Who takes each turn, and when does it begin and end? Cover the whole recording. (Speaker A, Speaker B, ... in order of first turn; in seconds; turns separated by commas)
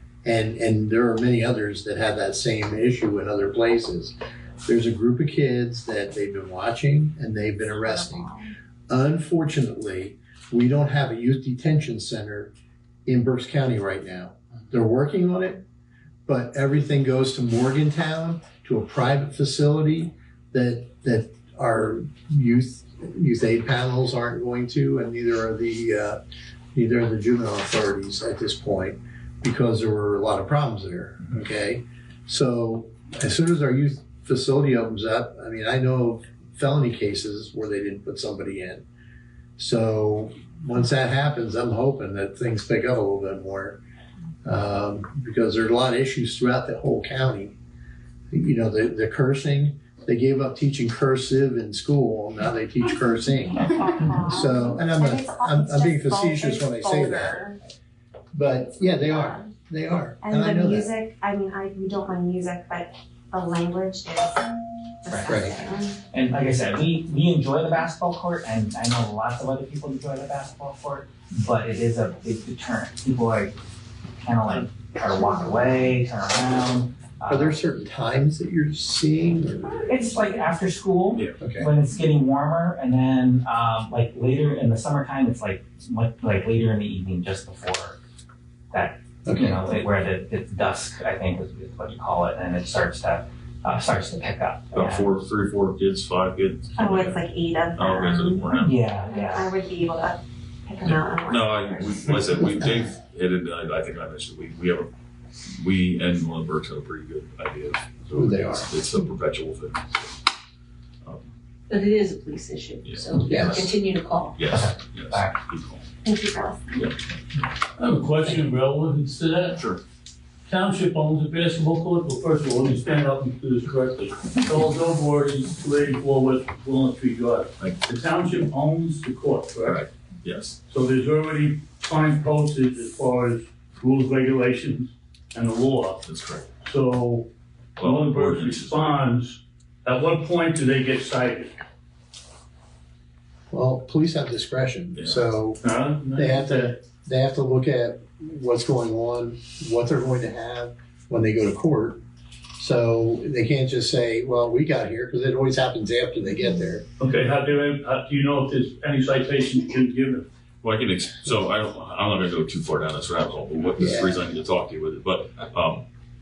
Speaker A: 0.2-4.1, Speaker A: 4.6-8.3, Speaker B: 7.7-8.5, Speaker A: 8.9-12.5, Speaker A: 13.1-15.6, Speaker A: 16.3-26.2, Speaker A: 26.7-38.8, Speaker A: 39.6-43.8, Speaker A: 44.4-47.5, Speaker A: 48.3-57.5, Speaker B: 53.5-57.6, Speaker A: 58.3-60.9, Speaker B: 58.8-59.5, Speaker B: 60.2-64.5, Speaker B: 65.0-66.0, Speaker C: 65.1-65.5, Speaker A: 65.2-65.5, Speaker C: 66.1-73.5, Speaker C: 74.2-77.5, Speaker A: 77.3-80.2, Speaker C: 79.8-88.0, Speaker A: 81.4-81.7, Speaker C: 88.7-95.1, Speaker A: 89.2-89.6, Speaker D: 94.7-97.2, Speaker B: 96.8-98.5, Speaker D: 97.8-98.7, Speaker C: 98.5-99.5, Speaker B: 99.0-102.1, Speaker D: 100.8-104.9, Speaker D: 105.5-110.2, Speaker A: 108.1-108.7, Speaker D: 111.0-111.3, Speaker E: 111.7-114.4, Speaker D: 112.8-113.7, Speaker A: 113.3-113.7, Speaker D: 114.3-115.8, Speaker C: 114.4-115.4, Speaker B: 116.0-116.9, Speaker F: 117.8-119.6, Speaker D: 119.5-119.8, Speaker F: 120.5-129.8, Speaker D: 129.6-130.6, Speaker F: 130.7-136.0, Speaker D: 136.0-136.5, Speaker F: 136.6-141.6, Speaker D: 137.8-139.0, Speaker A: 143.5-145.6, Speaker D: 144.9-145.2, Speaker F: 145.6-146.7, Speaker A: 146.2-152.0, Speaker A: 152.6-156.8, Speaker F: 157.0-160.2, Speaker D: 160.6-165.8, Speaker A: 163.8-164.2